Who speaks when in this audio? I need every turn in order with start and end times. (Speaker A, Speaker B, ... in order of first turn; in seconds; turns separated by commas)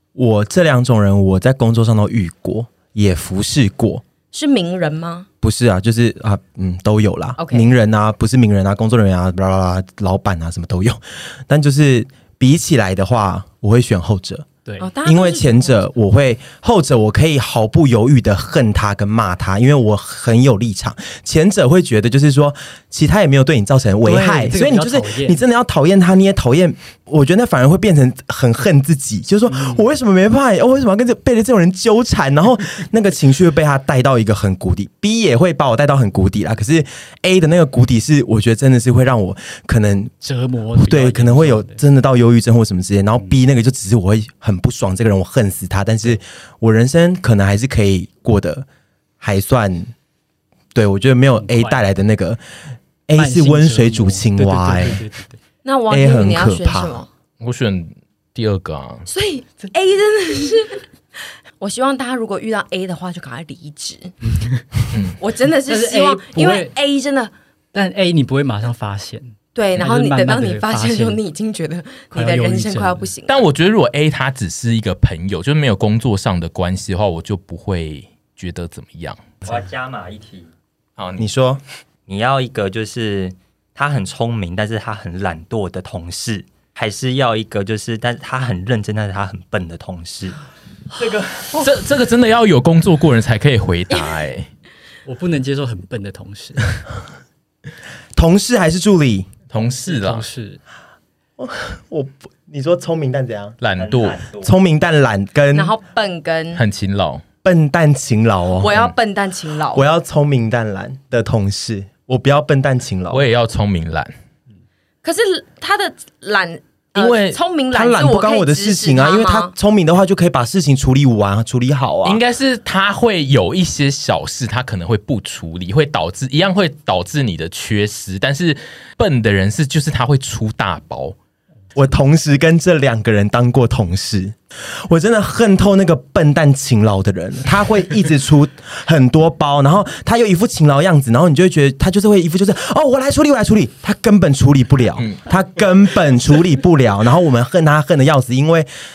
Speaker A: 0.1-4.0, Speaker B: 4.3-5.3, Speaker A: 5.4-14.4, Speaker B: 7.4-7.7, Speaker B: 14.8-15.8, Speaker A: 15.0-40.1, Speaker C: 24.0-25.4, Speaker C: 40.2-41.8, Speaker A: 40.7-48.6, Speaker A: 49.2-49.9, Speaker A: 50.7-52.4, Speaker C: 51.4-51.8, Speaker A: 53.1-55.0, Speaker C: 53.1-55.4, Speaker B: 55.6-57.1, Speaker A: 55.9-57.0, Speaker D: 57.4-59.0, Speaker B: 59.1-60.8, Speaker B: 61.6-64.1, Speaker C: 64.3-64.8, Speaker B: 65.2-67.3, Speaker C: 65.7-66.7, Speaker C: 67.7-71.2, Speaker B: 69.5-73.4, Speaker C: 72.1-73.1, Speaker D: 73.3-79.2, Speaker E: 79.4-80.5, Speaker D: 81.0-81.2, Speaker A: 81.2-81.6, Speaker E: 82.1-90.3, Speaker C: 91.0-91.5, Speaker D: 91.5-94.5, Speaker C: 95.0-96.9, Speaker A: 98.2-99.3, Speaker D: 99.5-100.3, Speaker C: 99.6-100.6, Speaker A: 101.4-103.6, Speaker D: 103.6-104.2, Speaker E: 103.8-104.5, Speaker A: 104.4-105.7, Speaker B: 105.5-106.6, Speaker D: 106.5-107.2, Speaker A: 107.4-108.8, Speaker B: 108.6-109.8, Speaker A: 109.7-113.2, Speaker D: 113.1-114.1, Speaker B: 115.0-119.5, Speaker D: 117.0-117.4, Speaker A: 117.7-122.2, Speaker D: 122.0-131.2, Speaker A: 131.8-134.3, Speaker A: 134.9-148.7